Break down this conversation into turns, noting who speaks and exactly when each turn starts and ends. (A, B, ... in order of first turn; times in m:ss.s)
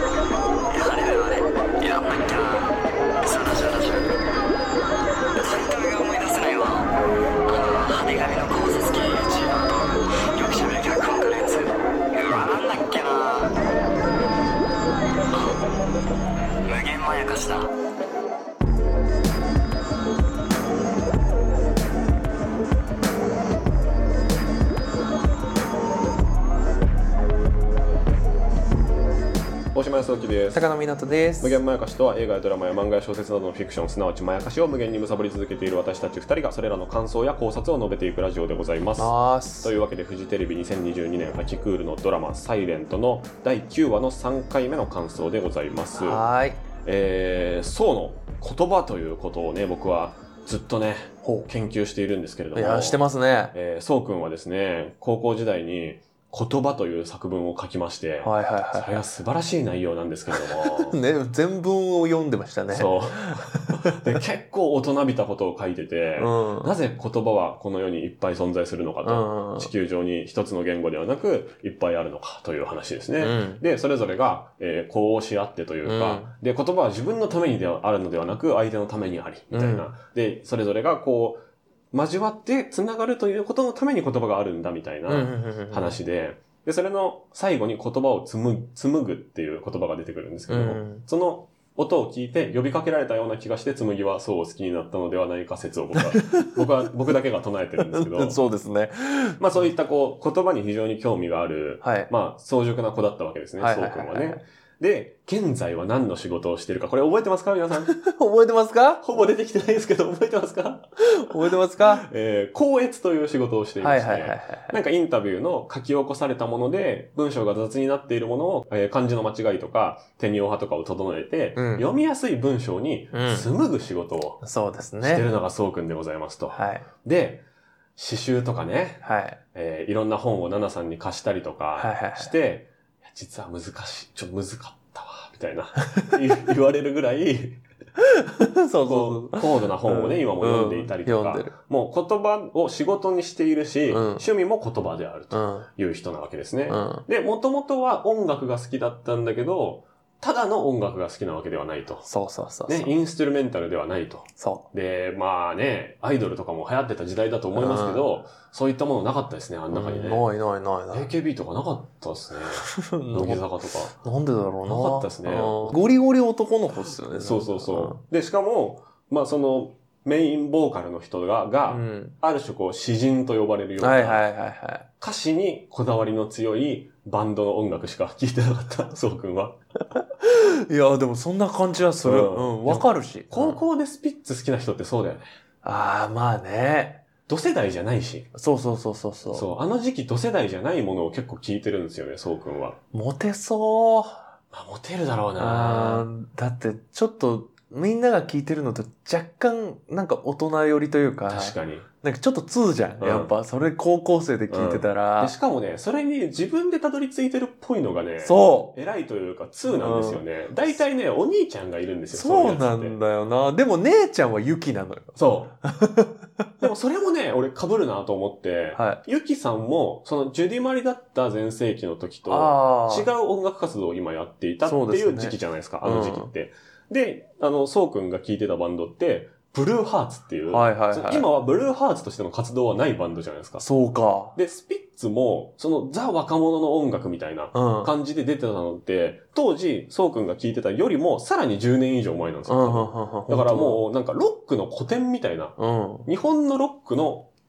0:00.7-0:04.2 A
0:05.4-0:06.9 A
0:07.5-0:13.5 A
0:16.6-0:17.7 A
0:29.7-0:30.6 B
0:30.5-0:31.6 C
0:31.4-0:46.2 B
0:39.0-0:39.7 C
0:46.0-0:46.6 C
0:46.8-1:01.0 B
0:51.2-0:51.5 C
0:52.5-0:53.5 C
0:58.2-0:59.0 C
1:00.3-1:04.2 C
1:02.7-1:38.4 B
1:06.2-1:06.7 C
1:09.0-1:09.7 C
1:13.2-1:13.6 C
1:15.8-1:16.3 C
1:19.5-1:19.9 C
1:25.1-1:26.0 C
1:30.5-1:31.0 C
1:36.0-1:36.6 C
1:37.8-1:39.7 C
1:39.4-1:47.9 B
1:41.8-1:42.1 C
1:43.6-1:44.4 C
1:47.8-1:49.1 C
1:49.0-2:04.4 B
1:51.2-1:52.1 C
1:53.8-1:54.7 C
2:01.6-2:01.9 C
2:03.1-2:03.5 C
2:04.4-2:05.3 C
2:05.0-2:07.4 B
2:06.6-2:06.9 C
2:08.0-2:17.6 B
2:09.0-2:09.4 C
2:11.8-2:12.3 C
2:18.0-2:21.5 C
2:18.9-2:32.1 B
2:23.9-2:24.3 C
2:25.3-2:25.7 C
2:26.7-2:27.0 C
2:32.0-2:32.9 C
2:32.7-2:40.2 B
2:34.4-2:34.7 C
2:37.6-2:38.0 C
2:39.7-2:41.1 C
2:40.9-2:44.0 B
2:42.6-2:48.0 C
2:44.7-2:45.8 B
2:47.2-2:54.2 B
2:51.7-2:52.2 C
2:53.8-2:54.9 C
2:55.0-2:59.6 B
3:00.2-3:03.6 C
3:02.0-3:05.3 B
3:05.6-3:07.0 C
3:07.3-3:08.3 B
3:08.3-3:09.5 C
3:09.3-3:12.8 B
3:12.9-3:14.2 C
3:14.5-3:16.1 B
3:15.4-3:25.3 C
3:21.3-3:21.9 B
3:23.0-3:23.3 B
3:24.5-3:33.0 B
3:28.2-3:28.7 C
3:29.7-3:30.2 C
3:32.1-3:36.5 C
3:35.2-3:35.6 B
3:36.6-3:53.7 B
3:42.3-3:43.1 C
3:44.6-3:46.3 C
3:50.5-3:51.3 C
3:53.6-3:54.4 C
3:54.4-4:07.3 B
3:57.5-3:57.9 C
4:02.5-4:03.8 C
4:05.6-4:06.1 C